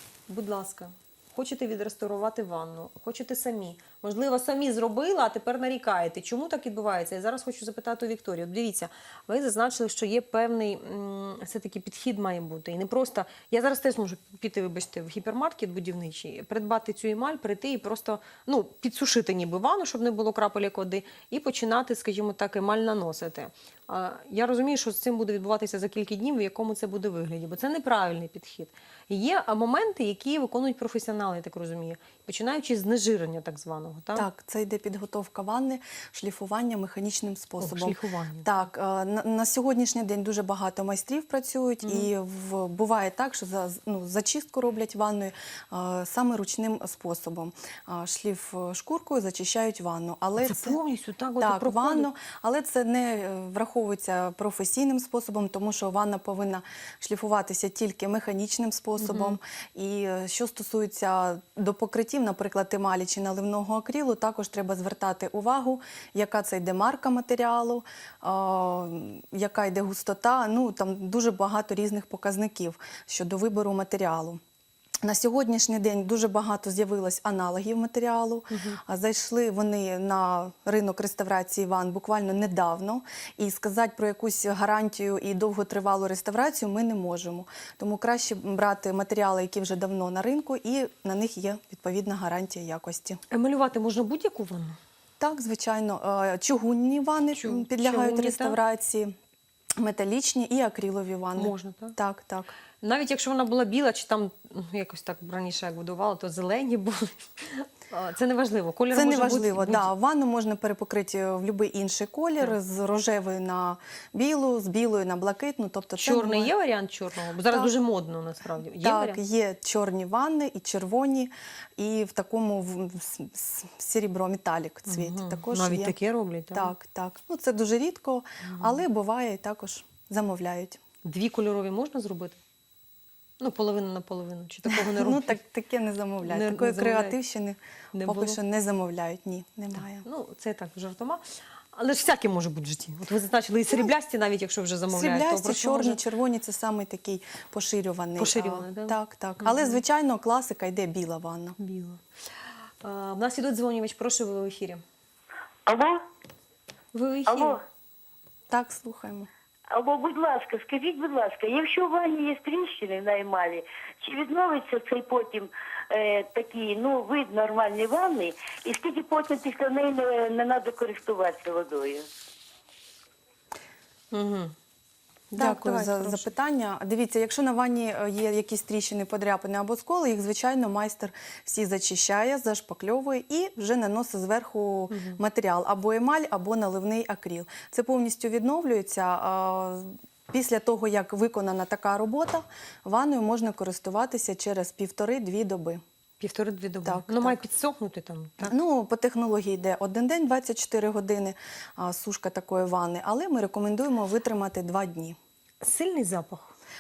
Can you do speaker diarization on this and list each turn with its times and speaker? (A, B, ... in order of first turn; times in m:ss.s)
0:00.3-0:34.2 A
0:34.1-0:50.8 B
0:37.6-0:38.5 A
0:41.8-0:42.1 A
0:50.4-0:52.1 A
0:51.4-1:14.4 B
0:59.0-0:59.4 A
1:15.0-1:33.2 B
1:18.5-1:18.8 A
1:33.3-1:34.8 A
1:35.2-1:39.1 B
1:37.3-1:38.6 A
1:39.8-1:42.5 B
1:41.4-1:41.9 A
1:42.8-1:49.9 A
1:48.9-1:56.5 B
1:56.0-1:59.2 A
1:58.8-2:06.0 B
2:04.9-2:06.7 A
2:06.5-2:10.8 B
2:08.4-2:08.8 A
2:11.0-2:12.4 A
2:13.4-2:15.4 A
2:14.6-2:20.0 B
2:16.2-2:17.1 A
2:17.9-2:18.4 A
2:19.8-2:21.2 A
2:21.7-2:26.0 A
2:24.9-2:31.6 B
2:28.2-2:29.8 A
2:31.6-2:32.0 A
2:32.8-2:34.8 A
2:35.7-2:36.0 C
2:36.9-2:37.6 A
2:37.3-2:37.6 C
2:38.5-2:39.3 B
2:39.7-2:52.1 C
2:54.1-2:54.5 A
2:55.3-2:56.3 A
2:55.4-3:15.8 B
3:04.9-3:05.2 A
3:16.2-3:18.5 A
3:16.8-3:17.4 B
3:18.4-3:25.2 B
3:25.6-3:26.5 A